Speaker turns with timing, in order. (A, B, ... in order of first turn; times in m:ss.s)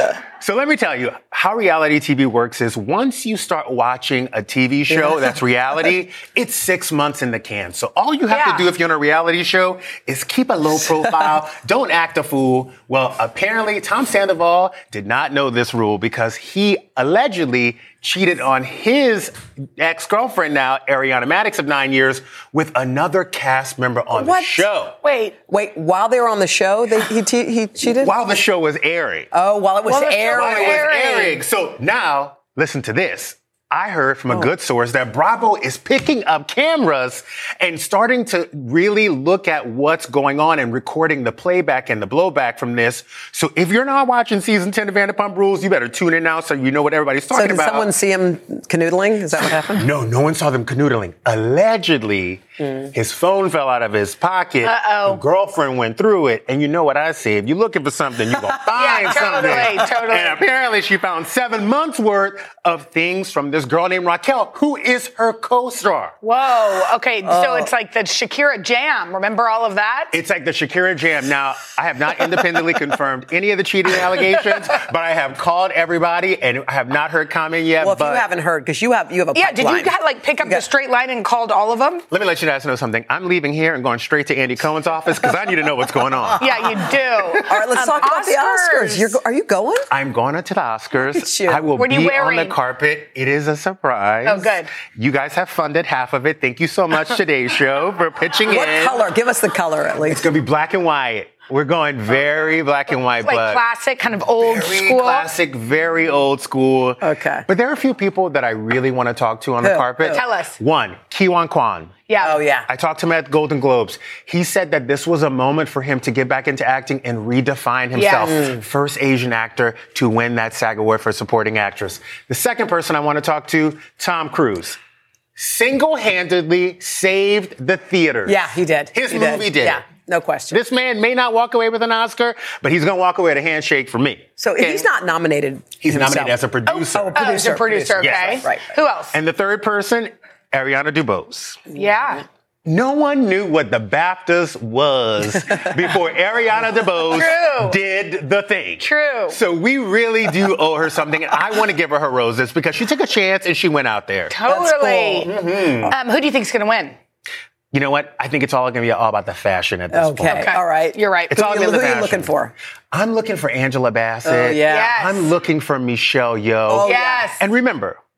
0:00.4-0:25.0 A
0:08.3-0:08.7 B
0:24.1-0:24.7 C
0:25.0-0:25.4 B
0:25.5-0:28.1 C
0:27.8-0:29.3 A
0:29.3-0:31.2 C
0:29.9-0:31.4 B
0:30.2-0:47.9 A
0:47.3-0:49.9 C
0:49.8-1:06.1 A
0:52.6-0:52.9 C
0:54.6-0:55.2 B
0:58.7-1:00.4 B
1:06.2-1:10.1 B
1:07.2-1:07.7 C
1:10.1-1:18.2 A
1:17.8-1:20.6 C
1:19.3-1:22.0 B
1:22.1-1:26.6 A
1:26.4-1:29.2 B
1:27.4-1:29.9 C
1:29.9-1:39.1 A
1:31.1-1:31.7 C
1:31.8-1:32.6 B
1:34.2-1:34.7 B
1:38.4-1:40.3 C
1:40.0-1:43.6 A
1:43.2-1:45.3 B
1:44.4-1:52.0 A
1:47.0-1:47.4 C
1:49.6-1:50.2 C
1:50.1-1:50.6 B
1:52.1-1:52.4 B
1:52.2-1:52.7 C
1:52.7-2:04.8 A
1:57.9-1:58.4 B
1:58.3-1:58.6 C
2:05.4-2:08.4 A
2:08.2-2:10.6 C
2:08.9-2:09.8 A
2:10.5-2:14.9 A
2:14.4-2:18.7 C
2:15.8-2:17.2 A
2:16.7-2:19.1 B
2:18.0-2:18.4 A
2:19.1-2:21.7 A
2:21.7-2:22.2 B
2:22.6-2:34.4 A
2:27.1-2:27.8 B
2:28.8-2:29.4 B
2:34.3-2:35.3 B
2:34.4-2:35.3 C
2:35.2-2:35.9 A
2:35.9-2:36.9 B
2:37.7-2:40.5 A
2:39.9-2:42.5 C
2:40.2-2:42.0 B
2:41.3-2:42.3 A
2:42.9-2:48.0 A
2:44.2-2:45.0 C
2:44.6-2:45.3 B
2:46.7-2:47.3 C
2:46.8-2:47.4 B